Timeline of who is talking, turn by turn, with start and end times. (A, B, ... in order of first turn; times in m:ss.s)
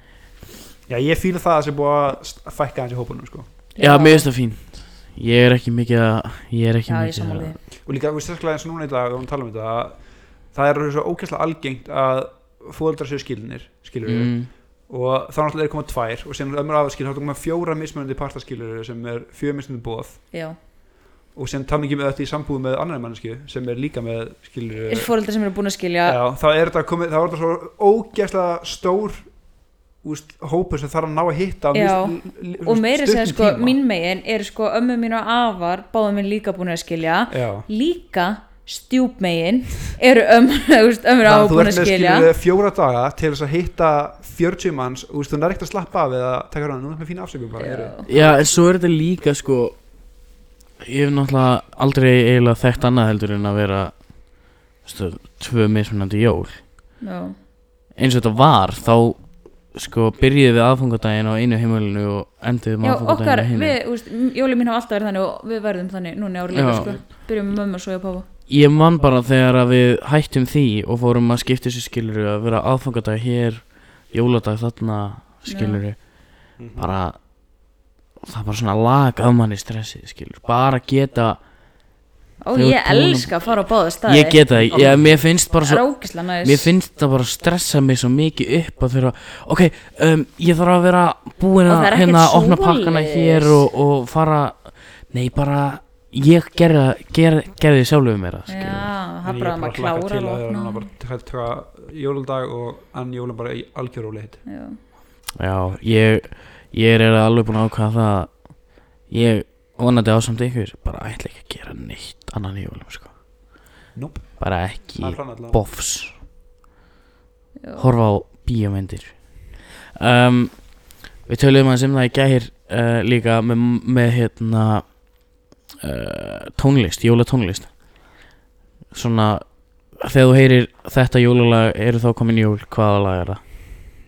0:00.9-0:03.5 A
0:03.8-0:04.3 B
0:03.8-0:07.5 C
0:06.9-0:07.6 B
0:07.8-0:10.0 A
0:10.5-0:20.2 A
0:14.0-0:14.5 C
0:21.4-0:25.1 A
0:24.9-0:26.2 B
0:26.0-0:29.3 A
0:30.0-0:33.8 A
0:31.7-0:42.3 B
0:37.3-0:37.7 A
0:41.2-0:48.4 A
0:47.6-0:48.1 B
0:48.1-0:49.8 C
0:50.8-0:56.6 C
0:57.0-0:57.4 B
0:58.0-1:03.8 C
1:02.8-1:08.3 B
1:06.6-1:06.9 C
1:06.6-1:07.0 A
1:08.5-1:17.5 C
1:15.5-1:15.8 B
1:16.6-1:16.9 A
1:18.2-1:21.4 C
1:22.4-1:24.4 B
1:22.5-1:38.9 C
1:24.6-1:25.2 A
1:25.6-1:26.7 B
1:31.6-1:33.6 B
1:38.5-1:40.9 B
1:39.2-1:44.4 A
1:44.5-1:44.8 B
1:45.4-1:53.1 C
1:53.9-1:54.4 A
1:54.4-1:56.1 C
1:55.0-1:55.6 A
1:57.6-1:57.9 B
1:57.8-2:05.2 C
2:05.8-2:07.8 C
2:08.9-2:13.4 C